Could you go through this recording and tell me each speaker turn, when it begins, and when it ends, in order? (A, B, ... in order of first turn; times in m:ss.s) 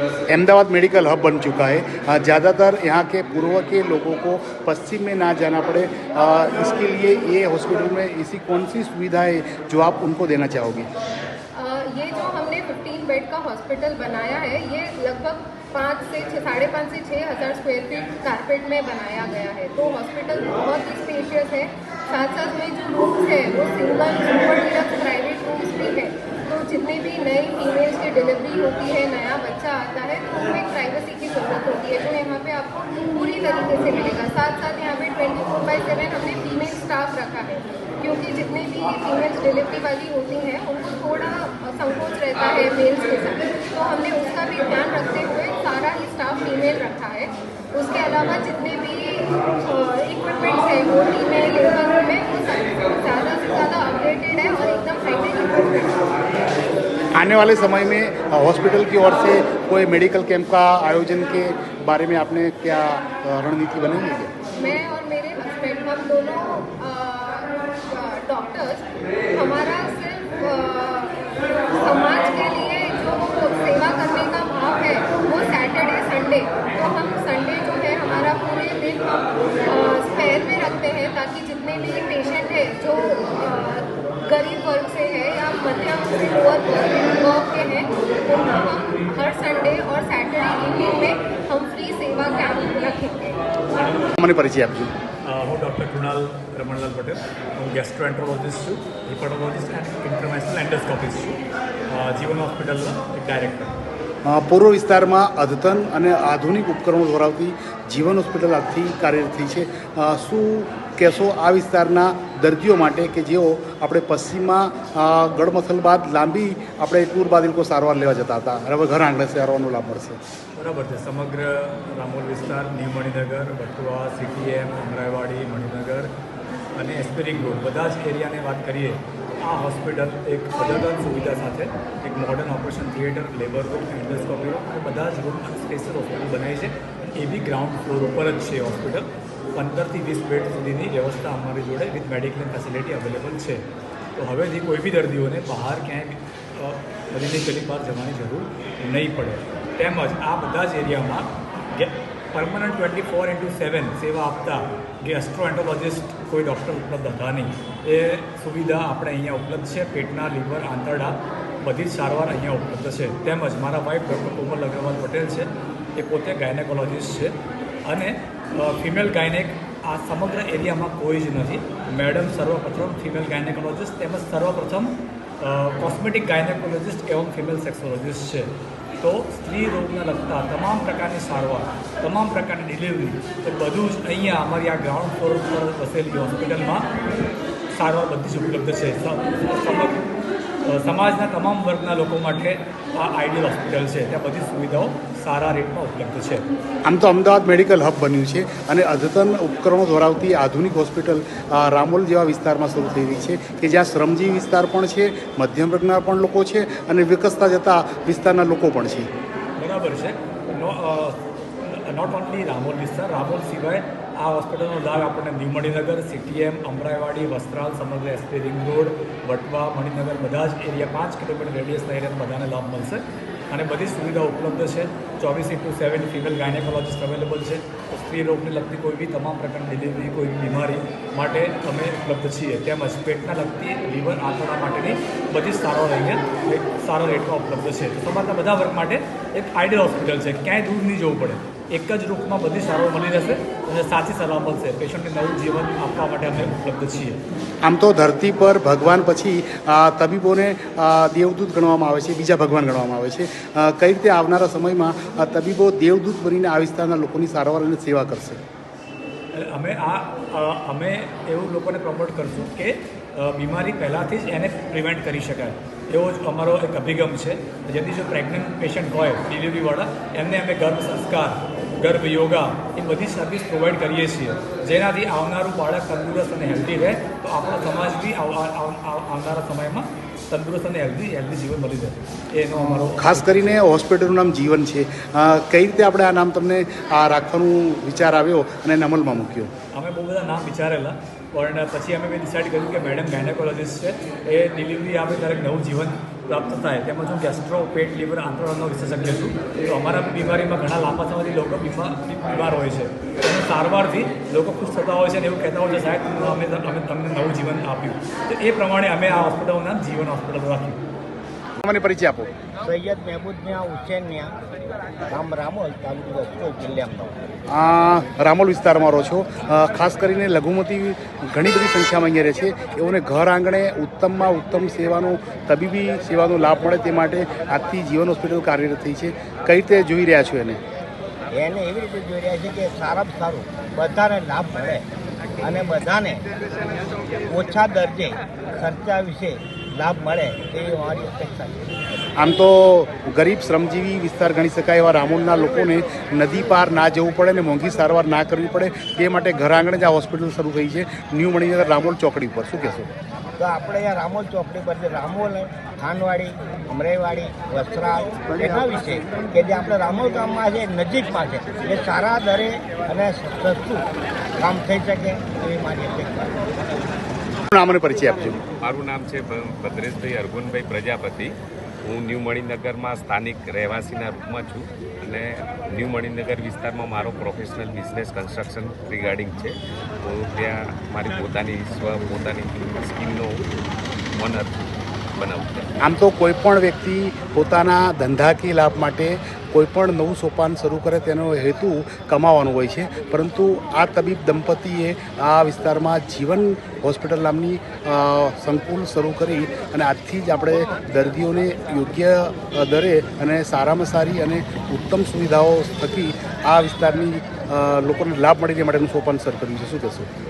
0:00.3-0:10.9 A
0:11.6-0:56.2 B
0:22.3-0:22.6 C
0:57.2-1:04.3 A
1:04.6-1:11.2 B
1:11.8-1:19.2 B
1:13.7-1:14.4 C
1:17.8-1:18.8 C
1:19.7-1:33.2 B
1:33.8-1:34.1 D
1:34.2-1:34.9 A
1:35.2-1:43.7 D
1:44.3-2:00.2 A
2:00.6-2:06.1 D
2:06.8-2:23.6 D
2:24.2-3:06.9 D
3:07.7-3:10.0 D
3:10.7-3:16.5 D
3:16.8-3:29.1 A
3:29.6-4:07.2 D
4:07.6-4:18.4 A
4:19.3-4:43.4 D
4:42.6-4:49.5 A
4:49.7-5:10.8 D
5:11.6-5:12.3 A
5:12.6-5:14.4 E
5:15.1-5:17.2 E
5:17.5-5:30.6 A
5:31.3-5:34.9 E
5:35.4-5:36.4 E
5:37.2-5:42.0 E
5:42.2-5:52.9 A
5:53.4-6:03.9 E
5:58.3-5:59.1 A
6:04.4-6:06.4 E
6:07.5-6:08.4 A
6:08.6-6:11.3 C
6:11.9-6:24.6 C
6:25.2-6:25.5 C
6:25.8-6:50.1 A